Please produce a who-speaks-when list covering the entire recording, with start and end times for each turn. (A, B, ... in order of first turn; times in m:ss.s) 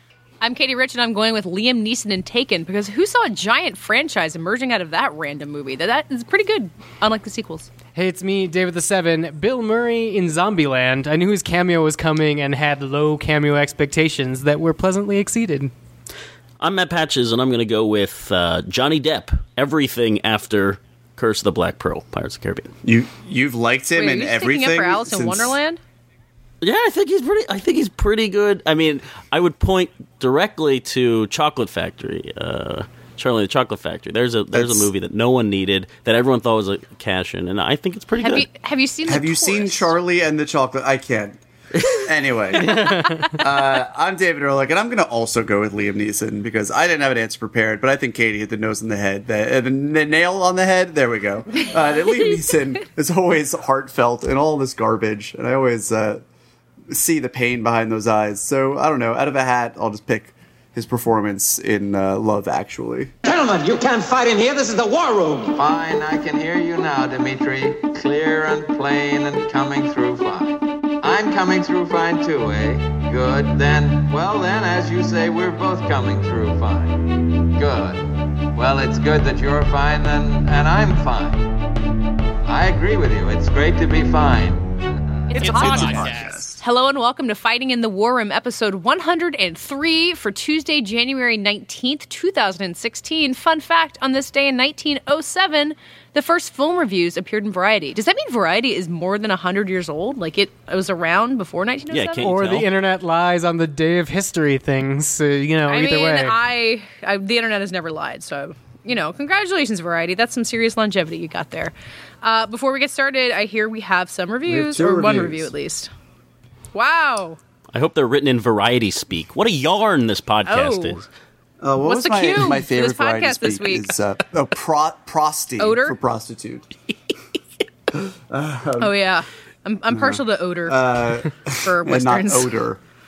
0:00.4-0:07.7 A
0:07.9-0:15.7 B
0:16.6-0:22.7 C
0:22.8-0:25.6 D
0:23.9-0:25.8 A
0:26.6-0:38.4 C
0:34.5-0:34.9 D
0:38.2-0:39.9 A
0:39.0-0:56.2 D
0:42.8-0:43.3 A
0:56.9-1:03.1 D
1:03.2-1:05.6 E
1:05.5-1:17.0 F
1:17.6-1:18.0 F
1:18.5-1:21.4 F
1:22.4-1:24.7 F
1:25.3-1:26.0 F
1:25.3-1:42.3 A
1:25.4-1:26.3 B
1:25.6-1:26.4 D
1:41.9-1:42.7 C
1:42.2-1:46.3 B
1:45.7-1:55.9 A
1:54.4-1:55.5 D
1:56.7-1:57.4 A
1:57.7-2:01.1 C
2:00.4-2:01.0 A
2:01.6-2:06.7 D
2:01.8-2:03.9 A
2:05.6-2:06.0 A
2:07.9-2:08.9 D
2:08.8-2:12.6 A
2:09.9-2:12.8 D